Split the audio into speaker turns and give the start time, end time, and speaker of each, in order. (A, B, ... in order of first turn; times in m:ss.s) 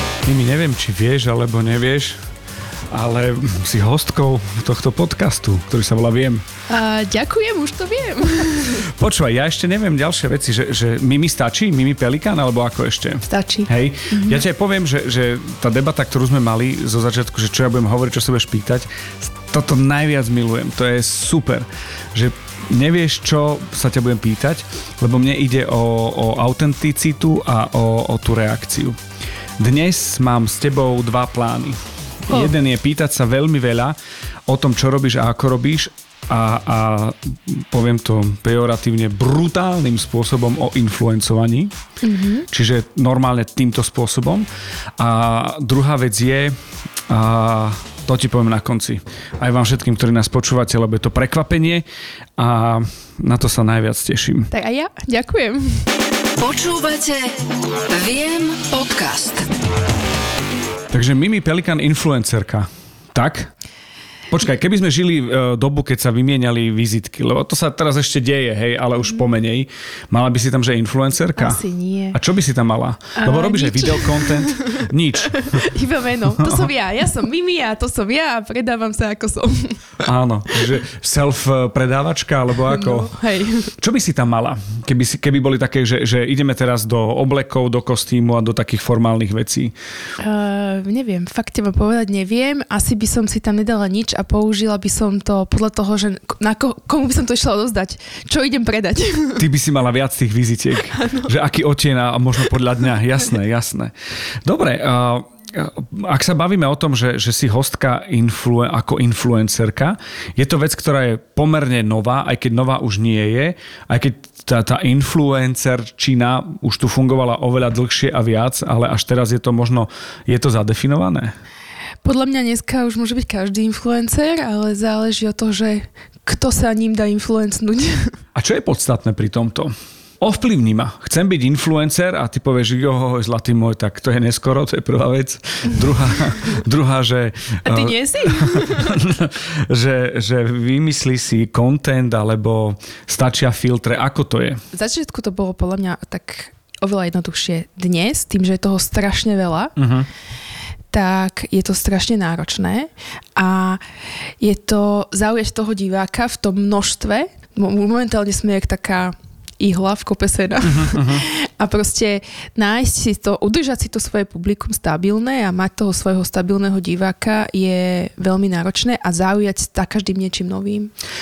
0:00.2-0:02.2 A
0:02.9-0:06.4 A
0:06.7-0:08.9 B
0:08.8-0:29.0 A
0:13.3-0:14.4 B
0:29.6-0:34.0 A
0:32.3-0:32.5 B
0:34.5-0:41.7 A
0:42.0-0:42.5 B
0:42.5-0:46.5 A
0:47.1-0:51.8 A
0:52.4-0:54.5 A
0:54.5-0:55.8 B
0:56.4-0:57.3 C
0:57.9-0:59.5 C
1:00.9-1:03.5 A
1:04.3-1:15.7 A
1:11.4-1:12.2 B
1:13.2-1:19.9 B
1:16.3-1:16.7 A
1:20.0-1:23.2 A
1:22.7-1:23.7 B
1:23.8-1:29.7 A
1:30.2-1:39.4 B
1:39.4-2:01.3 A
1:40.9-1:41.3 B
2:02.0-2:08.2 B
2:08.3-2:24.6 A
2:17.6-2:19.0 B
2:24.7-2:29.7 B
2:29.8-2:30.1 A
2:30.9-2:33.8 B
2:34.4-2:50.9 B
2:40.6-2:41.2 A